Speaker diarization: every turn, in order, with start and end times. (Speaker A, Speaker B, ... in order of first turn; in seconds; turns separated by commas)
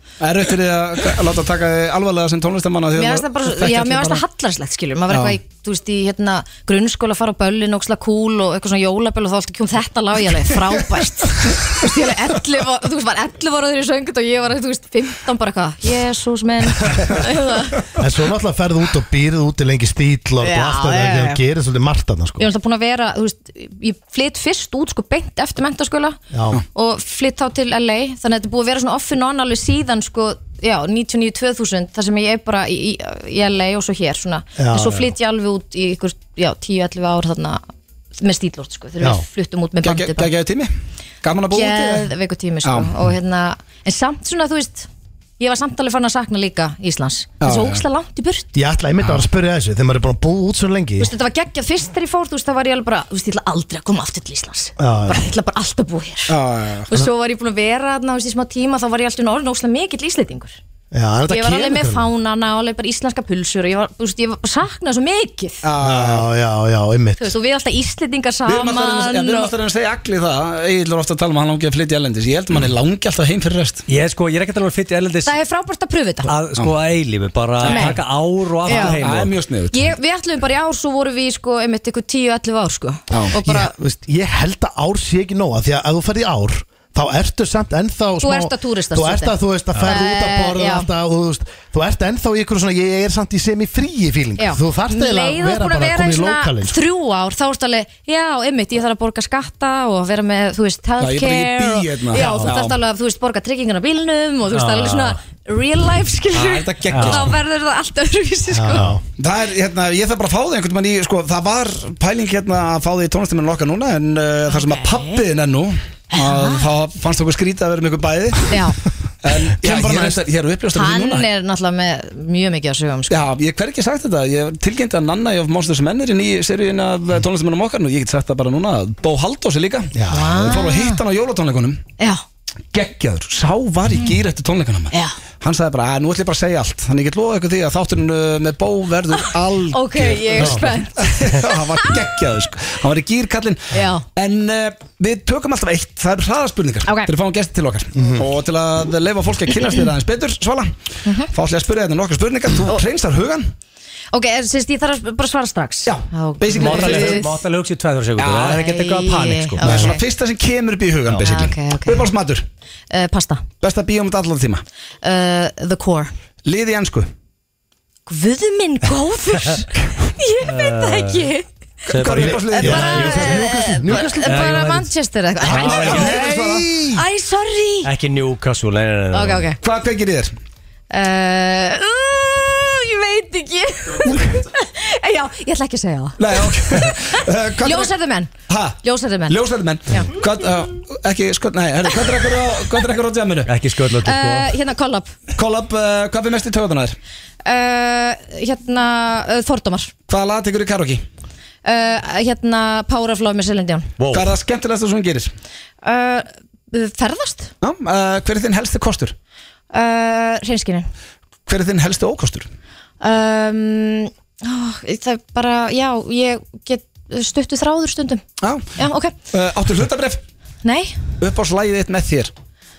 Speaker A: 0.2-4.2, Speaker B: 3.0-17.8, Speaker A: 5.1-5.4, Speaker A: 11.4-11.7, Speaker A: 16.9-17.2, Speaker C: 17.9-22.5, Speaker B: 20.4-21.4, Speaker B: 22.4-26.2, Speaker C: 26.3-26.6, Speaker B: 26.7-37.6, Speaker C: 34.6-35.1, Speaker B: 38.1-40.3, Speaker A: 39.8-40.7, Speaker A: 41.2-42.1, Speaker B: 41.5-44.9, Speaker A: 42.6-43.0, Speaker B: 45.4-48.5, Speaker A: 47.4-47.8, Speaker C: 48.5-51.1, Speaker B: 51.0-56.4, Speaker C: 54.8-55.2, Speaker A: 56.3-56.9, Speaker B: 56.9-60.6, Speaker C: 60.9-62.1, Speaker B: 61.3-65.6, Speaker A: 65.6-66.3, Speaker C: 65.8-67.3, Speaker B: 67.2-69.5, Speaker A: 68.5-73.8, Speaker D: 73.9-75.3, Speaker B: 75.2-76.3, Speaker D: 76.2-79.3, Speaker A: 77.6-78.0, Speaker B: 77.6-78.0, Speaker B: 78.6-79.0, Speaker A: 78.6-79.9, Speaker B: 79.7-83.7, Speaker A: 83.1-83.3, Speaker C: 83.3-96.8, Speaker B: 88.2-90.9, Speaker B: 94.4-108.9, Speaker A: 101.0-102.7, Speaker C: 102.2-102.5, Speaker D: 104.5-105.1, Speaker A: 106.3-107.3, Speaker D: 106.9-107.2, Speaker C: 108.5-109.0, Speaker A: 109.2-121.3, Speaker B: 114.5-115.2, Speaker B: 116.1-116.6, Speaker B: 118.5-118.8, Speaker C: 119.6-120.2, Speaker B: 120.7-123.2, Speaker A: 123.1-131.8, Speaker C: 129.9-130.5, Speaker B: 130.1-131.0, Speaker A: 132.7-153.5, Speaker B: 134.9-135.2, Speaker B: 139.1-142.0, Speaker B: 143.7-144.0, Speaker B: 146.8-147.1, Speaker C: 148.0-148.2, Speaker B: 151.1-151.3, Speaker B: 154.1-157.4, Speaker A: 155.8-157.2, Speaker D: 156.6-159.6, Speaker A: 158.2-158.6, Speaker B: 158.4-160.0, Speaker A: 159.6-162.4, Speaker C: 159.6-159.9, Speaker B: 161.1-162.1, Speaker B: 162.9-163.4, Speaker A: 163.6-164.6, Speaker B: 165.0-166.1, Speaker A: 166.4-167.1, Speaker B: 168.1-171.4, Speaker D: 170.4-171.3, Speaker A: 171.8-174.1, Speaker D: 171.9-173.5, Speaker C: 172.2-174.3, Speaker B: 172.5-177.9, Speaker D: 174.2-174.9, Speaker D: 175.4-176.1, Speaker A: 175.4-176.7, Speaker C: 175.8-177.0, Speaker D: 177.8-179.4, Speaker B: 179.1-179.6, Speaker A: 179.6-180.3, Speaker B: 180.9-188.3, Speaker A: 186.2-187.9, Speaker A: 188.5-193.5, Speaker B: 188.8-190.1, Speaker B: 192.1-192.3, Speaker D: 193.4-194.5, Speaker B: 194.0-195.1, Speaker A: 195.3-196.9, Speaker B: 197.4-199.9, Speaker A: 200.1-201.0, Speaker B: 201.6-203.9, Speaker D: 204.0-204.3, Speaker A: 204.1-205.3, Speaker B: 205.8-207.5, Speaker A: 207.6-209.1, Speaker B: 209.7-210.9, Speaker A: 211.5-212.5, Speaker B: 213.0-218.2, Speaker A: 218.4-220.2, Speaker B: 218.8-219.1, Speaker B: 220.6-221.0, Speaker A: 221.2-222.3